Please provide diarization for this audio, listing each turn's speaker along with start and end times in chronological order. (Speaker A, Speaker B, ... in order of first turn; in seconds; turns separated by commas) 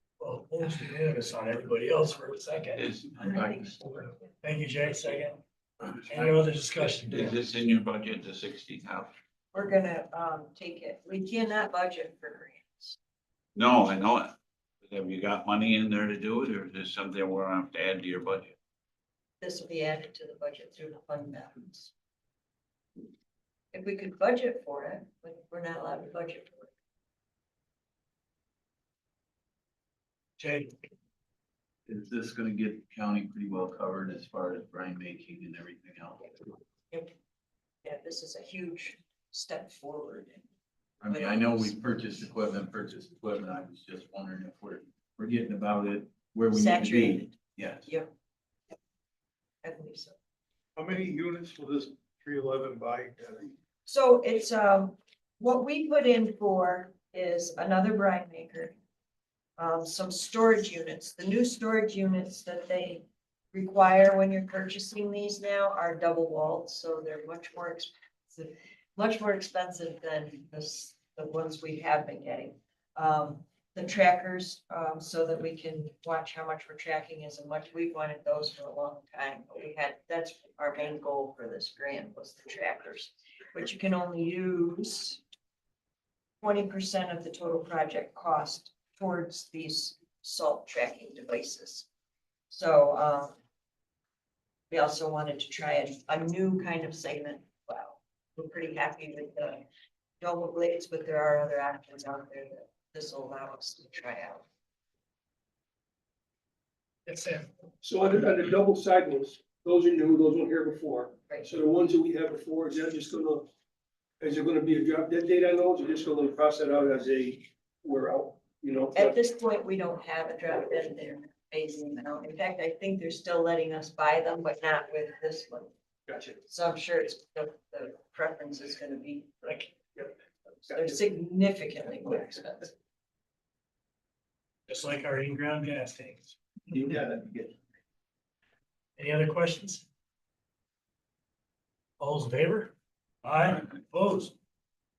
Speaker A: 0.2-2.9, Speaker B: 2.8-3.8, Speaker C: 3.2-4.0, Speaker A: 4.4-5.4, Speaker A: 6.1-7.4, Speaker B: 6.9-9.1, Speaker C: 9.5-13.0, Speaker B: 13.5-18.6, Speaker C: 19.4-21.9, Speaker C: 23.7-26.7, Speaker A: 30.4-30.8, Speaker D: 31.9-36.3, Speaker C: 37.8-40.5, Speaker D: 41.0-47.9, Speaker C: 41.0-41.7, Speaker C: 46.5-47.4, Speaker C: 49.6-50.1, Speaker E: 50.8-53.5, Speaker C: 53.9-58.7, Speaker C: 59.6-85.2, Speaker C: 86.4-91.9, Speaker C: 92.5-93.3, Speaker C: 94.7-99.6, Speaker C: 100.2-104.4, Speaker A: 107.0-107.5, Speaker F: 107.8-113.5, Speaker F: 114.2-119.2, Speaker C: 118.9-125.7, Speaker F: 126.1-126.4, Speaker C: 126.5-129.7, Speaker C: 130.7-132.7, Speaker A: 134.7-136.8, Speaker F: 136.9-137.4, Speaker A: 139.0-139.8, Speaker A: 142.0-144.3